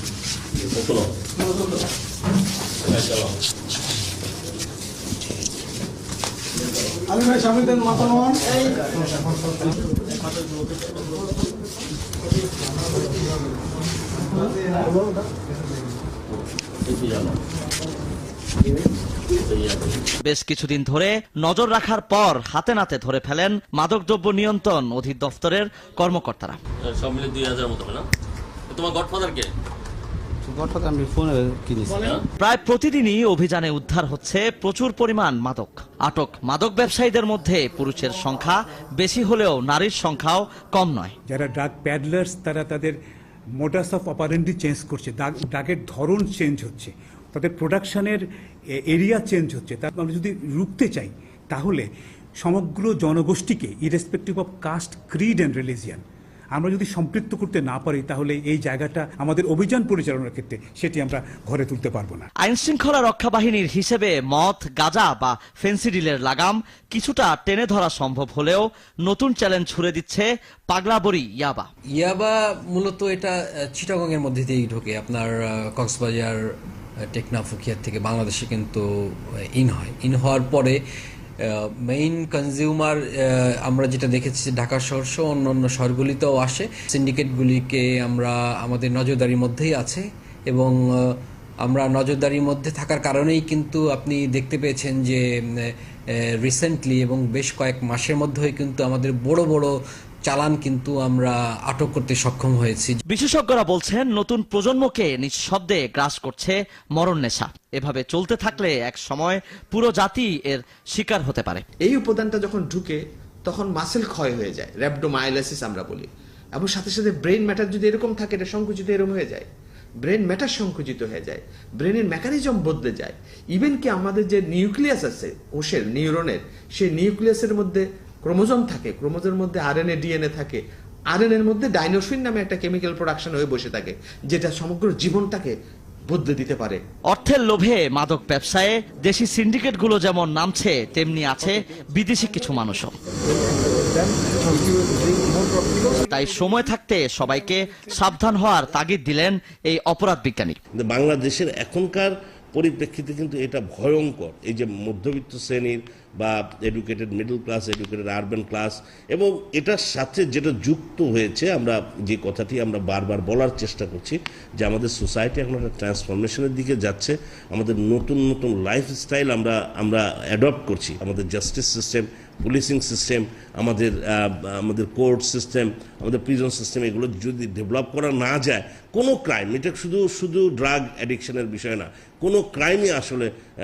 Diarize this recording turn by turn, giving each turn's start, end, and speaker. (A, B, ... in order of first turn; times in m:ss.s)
0:00.8-0:01.1 A
0:02.9-0:03.4 A
0:16.9-0:17.4 A
0:19.5-0:19.9 A
0:20.2-0:26.6 B
0:26.9-0:28.1 A
0:28.7-0:29.5 A
0:32.4-0:41.1 B
0:41.3-0:43.0 C
0:43.6-0:48.2 C
0:48.9-0:51.8 C
0:52.4-0:56.0 C
0:56.6-1:02.3 C
1:02.4-1:11.7 B
1:12.0-1:16.4 D
1:17.1-1:18.8 D
1:19.6-1:20.8 D
1:21.4-1:35.7 D
1:36.4-1:39.7 D
1:40.3-1:43.0 D
1:43.1-1:51.6 B
1:51.8-1:59.5 E
2:00.0-2:10.6 E
2:11.1-2:15.5 E
2:16.1-2:16.8 E
2:17.1-2:23.0 B
2:25.8-2:30.6 B
2:30.8-3:03.3 F